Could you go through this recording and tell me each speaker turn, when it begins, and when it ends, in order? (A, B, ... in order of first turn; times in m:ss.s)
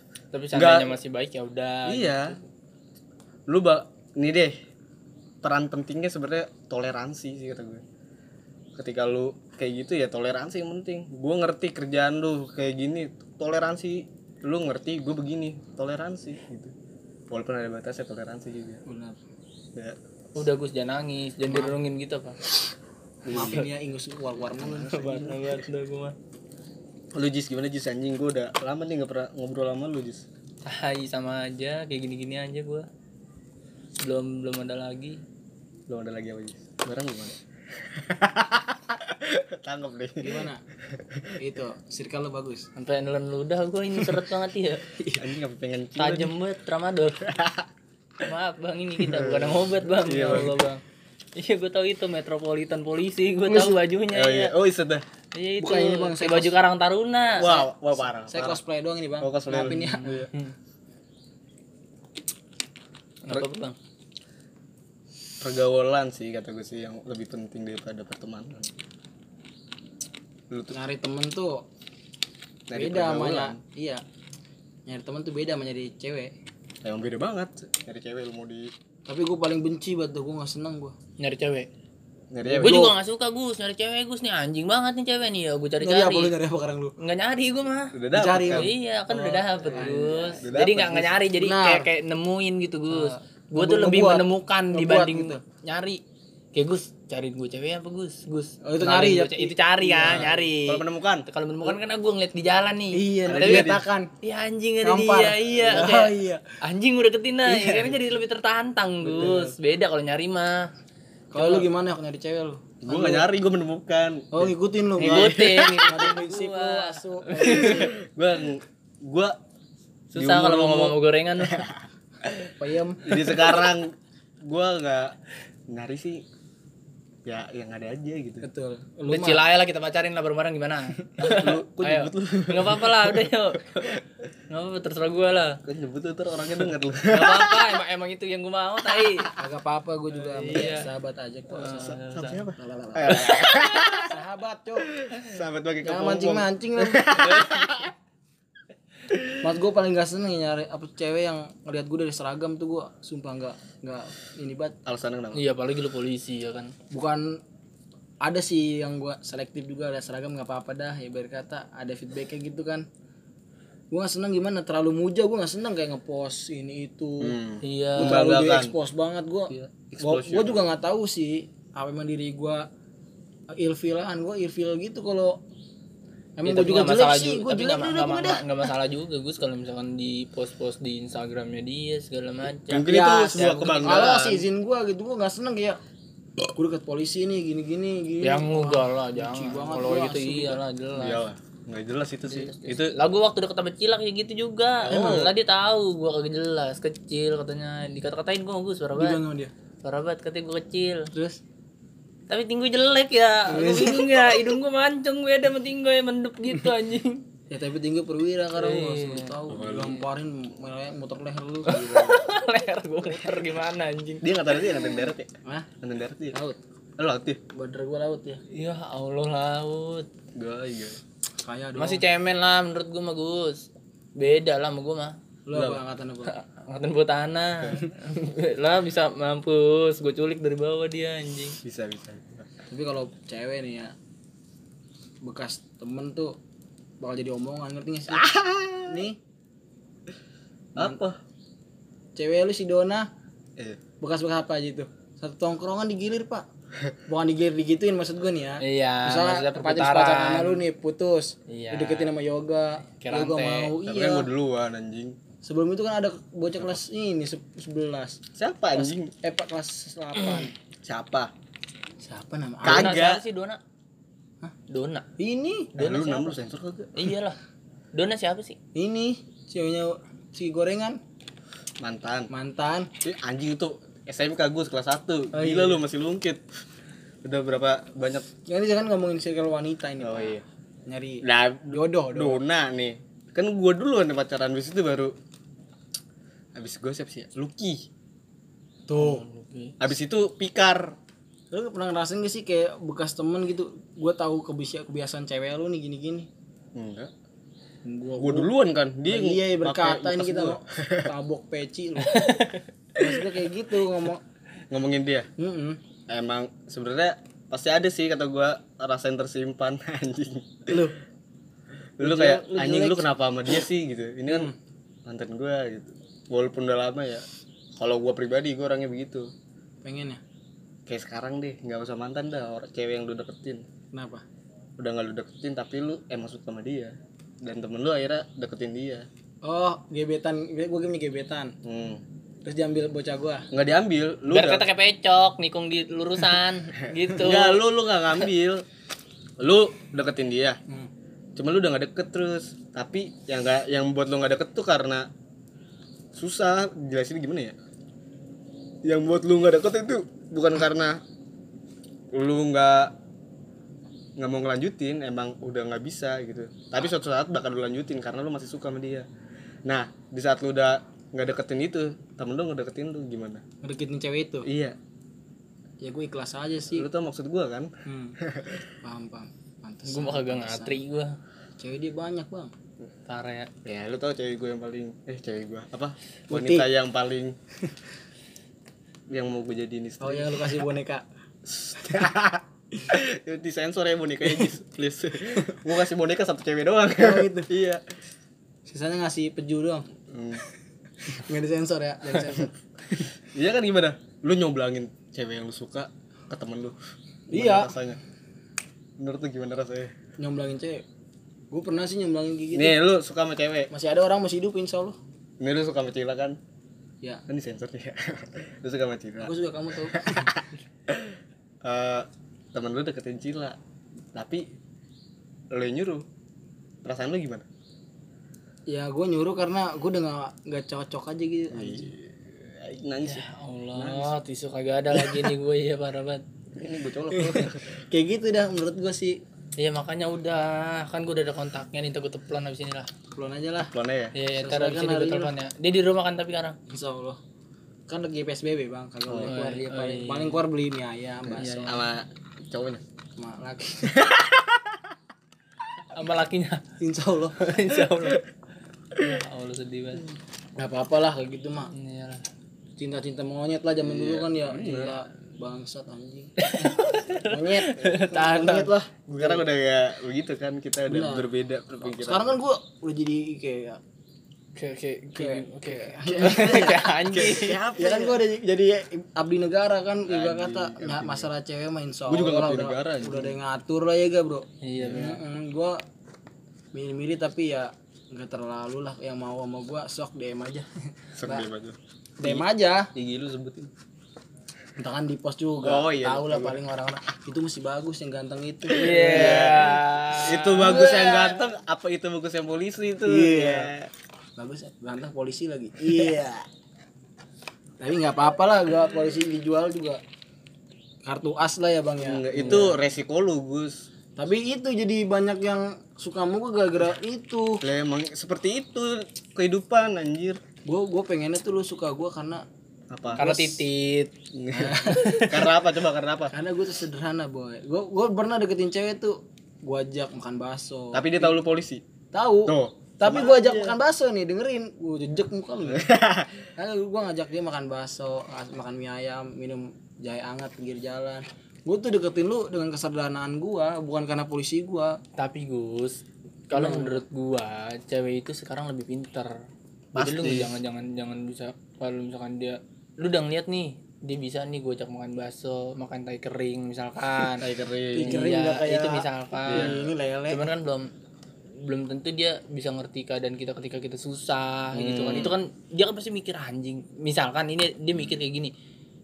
0:00.3-0:02.4 A
0:00.5-0:00.9 B
0:01.8-0:02.4 B
0:03.5-0:04.6 B
0:05.4-0:07.8 B
0:08.8-0:16.7 B
0:17.3-0:18.8 B
0:18.8-0:19.2 C
0:20.3-0:22.4 A
0:21.4-0:21.8 C
0:23.2-0:23.7 B
0:23.3-0:25.4 C
0:23.3-0:23.7 A
0:24.6-0:25.4 B
0:24.6-0:26.2 A
0:27.1-0:30.2 B
0:30.6-0:32.9 A
0:34.0-0:35.2 A
0:35.9-0:41.3 B
0:40.2-0:40.6 C
0:41.4-0:42.6 C
0:42.8-0:44.9 A
0:45.0-0:45.2 C
0:45.2-0:46.4 B
0:46.0-0:47.3 A
0:47.3-0:47.6 B
0:48.2-0:50.8 A
0:49.0-0:50.6 B
0:51.4-0:54.5 A
0:53.5-0:53.8 C
0:54.1-0:55.0 B
0:55.3-0:57.7 A
0:55.6-0:56.5 C
0:57.4-0:58.6 B
0:58.2-1:00.0 C
0:59.2-1:00.3 B
1:00.0-1:00.5 A
1:03.2-1:03.8 A
1:05.4-1:08.7 B
1:10.5-1:10.8 B
1:10.7-1:11.6 C
1:12.7-1:13.6 B
1:12.7-1:14.0 C
1:14.9-1:16.3 C
1:16.8-1:18.7 B
1:19.0-1:20.9 C
1:21.2-1:21.7 A
1:22.3-1:22.9 B
1:22.4-1:22.9 C
1:22.6-1:26.3 A
1:25.8-1:26.9 C
1:27.0-1:27.9 A
1:27.9-1:28.7 B
1:28.1-1:30.4 C
1:28.5-1:36.0 A
1:29.7-1:31.2 B
1:31.3-1:31.9 C
1:32.9-1:35.4 C
1:36.5-1:43.7 A
1:38.6-1:40.5 C
1:40.0-1:41.3 B
1:42.9-1:44.1 C
1:43.2-1:43.8 B
1:44.2-1:50.6 A
1:44.8-1:46.4 C
1:47.5-1:47.9 C
1:49.1-1:49.5 B
1:49.1-1:49.5 C
1:51.3-1:53.3 C
1:51.3-1:51.7 A
1:52.8-1:56.1 B
1:54.3-1:58.0 C
1:55.0-1:57.9 A
1:57.4-1:59.3 B
2:00.1-2:01.7 A
2:00.1-2:01.0 B
2:01.5-2:02.5 B
2:02.6-2:03.5 C
2:03.0-2:05.2 B
2:05.7-2:06.2 B
2:07.2-2:08.4 B
2:08.4-2:09.4 C
2:09.1-2:15.6 A
2:11.2-2:13.3 B
2:15.6-2:17.6 B
2:17.1-2:19.3 A
2:19.4-2:21.9 C
2:20.2-2:20.9 A
2:21.5-2:22.4 A
2:21.7-2:24.1 B
2:22.6-2:23.3 C
2:23.1-2:23.7 A
2:24.0-2:24.9 C
2:25.0-2:27.9 B
2:25.8-2:27.1 C
2:27.1-2:27.8 A
2:29.4-2:34.8 C
2:34.8-2:35.4 B
2:35.3-2:36.7 A
2:36.9-2:37.4 C
2:38.2-2:42.8 C
2:43.9-2:47.4 C
2:47.2-2:48.7 B
2:47.6-2:48.2 A
2:48.0-2:52.6 C
2:49.9-2:50.7 B
2:53.6-2:55.4 C
2:56.4-2:58.4 C
2:56.4-3:04.2 A
3:02.7-3:04.4 B
3:02.9-3:05.8 C
3:06.5-3:10.6 C
3:08.2-3:11.2 A
3:10.9-3:12.9 B
3:12.3-3:19.2 A
3:14.8-3:15.3 C
3:19.0-3:19.5 C
3:19.8-3:21.1 A
3:21.1-3:21.4 C
3:22.3-3:27.2 A
3:23.5-3:24.5 C
3:27.5-3:32.2 C
3:28.5-3:29.9 A
3:29.5-3:30.0 B
3:31.7-3:35.1 A
3:34.2-3:35.3 B
3:35.8-3:36.3 B
3:36.3-3:36.6 C
3:37.0-3:37.4 B
3:37.5-3:38.4 C
3:38.5-3:40.1 A
3:40.3-3:41.0 B
3:41.4-3:42.0 C
3:41.8-3:45.2 A
3:45.4-3:46.3 C
3:45.5-3:45.8 B
3:46.2-3:51.6 A
3:51.6-3:52.5 B
3:52.7-3:53.9 C
3:55.2-3:56.4 C
3:57.0-3:58.3 C
3:58.1-3:59.0 B
3:58.8-3:59.2 C
4:00.8-4:01.2 B
4:02.2-4:03.1 C
4:04.0-4:06.4 C
4:07.1-4:14.3 C
4:08.6-4:10.6 A
4:11.5-4:12.1 A
4:13.0-4:13.7 A
4:13.8-4:15.2 B
4:15.4-4:18.2 C
4:18.4-4:19.1 B
4:18.7-4:20.5 C
4:20.8-4:21.3 B
4:22.0-4:23.0 C
4:22.6-4:23.6 A
4:22.6-4:23.2 B
4:24.7-4:25.1 A
4:25.2-4:25.8 C
4:25.8-4:27.1 B
4:25.8-4:26.4 A
4:26.9-4:27.4 A
4:27.9-4:28.6 A
4:28.7-4:31.0 C
4:31.8-4:32.3 B
4:32.3-4:32.9 C
4:33.0-4:36.4 B
4:35.3-4:35.8 C
4:37.2-4:38.2 B
4:38.5-4:42.4 C
4:40.0-4:40.4 B
4:41.2-4:45.1 B
4:46.5-4:47.8 B
4:48.9-4:49.2 C
4:49.0-4:49.8 A
4:49.8-4:51.0 B
4:51.5-4:56.3 C
4:56.7-4:57.1 B
4:57.8-4:58.5 C
4:58.2-5:01.1 B
4:59.1-5:02.3 C
5:02.0-5:02.6 A
5:03.0-5:04.2 C
5:04.7-5:05.3 B
5:05.4-5:05.8 C
5:06.1-5:10.8 B
5:10.7-5:10.9 C
5:12.0-5:14.5 B
5:12.0-5:13.1 C
5:14.3-5:14.5 C
5:15.0-5:17.2 B
5:17.8-5:19.3 B
5:19.8-5:20.2 C
5:20.9-5:23.6 B
5:23.9-5:24.2 C
5:24.8-5:29.1 B
5:29.4-5:31.5 C
5:31.6-5:32.0 B
5:32.4-5:33.5 C
5:33.5-5:34.6 B
5:34.3-5:37.6 A
5:37.1-5:38.6 B
5:39.4-5:40.6 B
5:41.4-5:45.1 B
5:46.1-5:47.5 B
5:48.8-5:51.0 B
5:52.1-5:52.9 B
5:54.2-5:59.0 B
5:59.6-6:03.4 B
6:03.6-6:04.4 C
6:04.4-6:04.8 B
6:05.8-6:06.8 C
6:06.7-6:07.7 B
6:07.9-6:08.2 C
6:08.2-6:08.6 B
6:08.8-6:10.8 C
6:09.8-6:11.2 A
6:11.6-6:12.5 C
6:13.1-6:13.5 A
6:13.6-6:17.4 B
6:16.3-6:16.7 C
6:19.1-6:20.6 B
6:20.0-6:21.0 C
6:21.5-6:27.8 B
6:27.0-6:27.5 C
6:28.6-6:29.9 C
6:30.1-6:30.4 B
6:31.0-6:32.5 C
6:33.3-6:36.8 B
6:37.3-6:37.7 C
6:37.3-6:38.0 B
6:39.0-6:39.9 B
6:40.2-6:40.8 C
6:41.5-6:42.8 C
6:42.5-6:43.7 B
6:43.7-6:45.0 C
6:45.4-6:46.4 B
6:47.3-6:49.3 B
6:49.2-6:50.3 C
6:49.9-6:53.6 B
6:54.1-6:54.4 B
6:55.5-6:56.0 B
6:56.8-6:57.4 B
6:58.7-7:01.9 C
7:01.5-7:04.2 B
7:03.0-7:06.2 A
7:06.6-7:07.6 B
7:07.1-7:09.2 C
7:09.6-7:12.9 A
7:13.1-7:13.7 C
7:13.7-7:14.1 B
7:14.1-7:16.6 A
7:14.3-7:15.3 C
7:16.7-7:17.2 C
7:17.9-7:21.8 C
7:19.1-7:19.4 B
7:19.2-7:20.4 A
7:21.3-7:22.8 B
7:21.4-7:21.8 A
7:23.2-7:23.9 C
7:23.9-7:24.8 B
7:25.9-7:26.6 A
7:26.8-7:27.5 C
7:27.4-7:28.2 A
7:28.9-7:30.0 A
7:30.6-7:31.7 C
7:31.7-7:32.2 A
7:32.8-7:36.3 C
7:33.8-7:35.0 B
7:36.4-7:38.7 A
7:37.2-7:39.4 C
7:39.1-7:42.4 B
7:40.9-7:41.3 C
7:41.8-7:43.8 C
7:44.5-7:47.6 A
7:45.1-7:46.9 C
7:46.1-7:48.2 B
7:47.8-7:55.8 C
7:50.1-7:51.3 B
7:52.1-7:53.4 B
7:54.6-7:55.2 A
7:54.8-7:55.2 B
7:56.7-8:00.7 C
8:01.2-8:03.7 B
8:02.2-8:02.9 C
8:04.8-8:09.7 C
8:05.6-8:06.6 B
8:08.7-8:13.9 B
8:08.8-8:11.0 A
8:10.6-8:11.4 C
8:13.0-8:13.7 C
8:14.4-8:16.4 C
8:15.8-8:16.4 B
8:17.8-8:20.0 C
8:21.0-8:22.8 C
8:22.0-8:23.8 B
8:24.2-8:27.6 C
8:27.6-8:30.4 B
8:30.6-8:32.4 C
8:32.9-8:33.2 B
8:33.2-8:33.6 C
8:33.2-8:34.1 A
8:34.3-8:36.3 B
8:34.5-8:35.3 C
8:34.9-8:35.5 A
8:36.3-8:41.4 C
8:40.9-8:41.8 B
8:42.1-8:45.9 C
8:42.5-8:43.8 B
8:45.7-8:46.5 B
8:46.6-8:55.0 C
8:55.2-8:59.3 A
8:56.5-8:57.0 C
8:59.9-9:00.5 B
8:59.9-9:09.7 A
9:07.3-9:08.2 B
9:08.0-9:10.4 C
9:09.5-9:09.9 B
9:10.3-9:10.9 A
9:11.6-9:18.5 A
9:14.7-9:15.4 B
9:17.9-9:18.2 B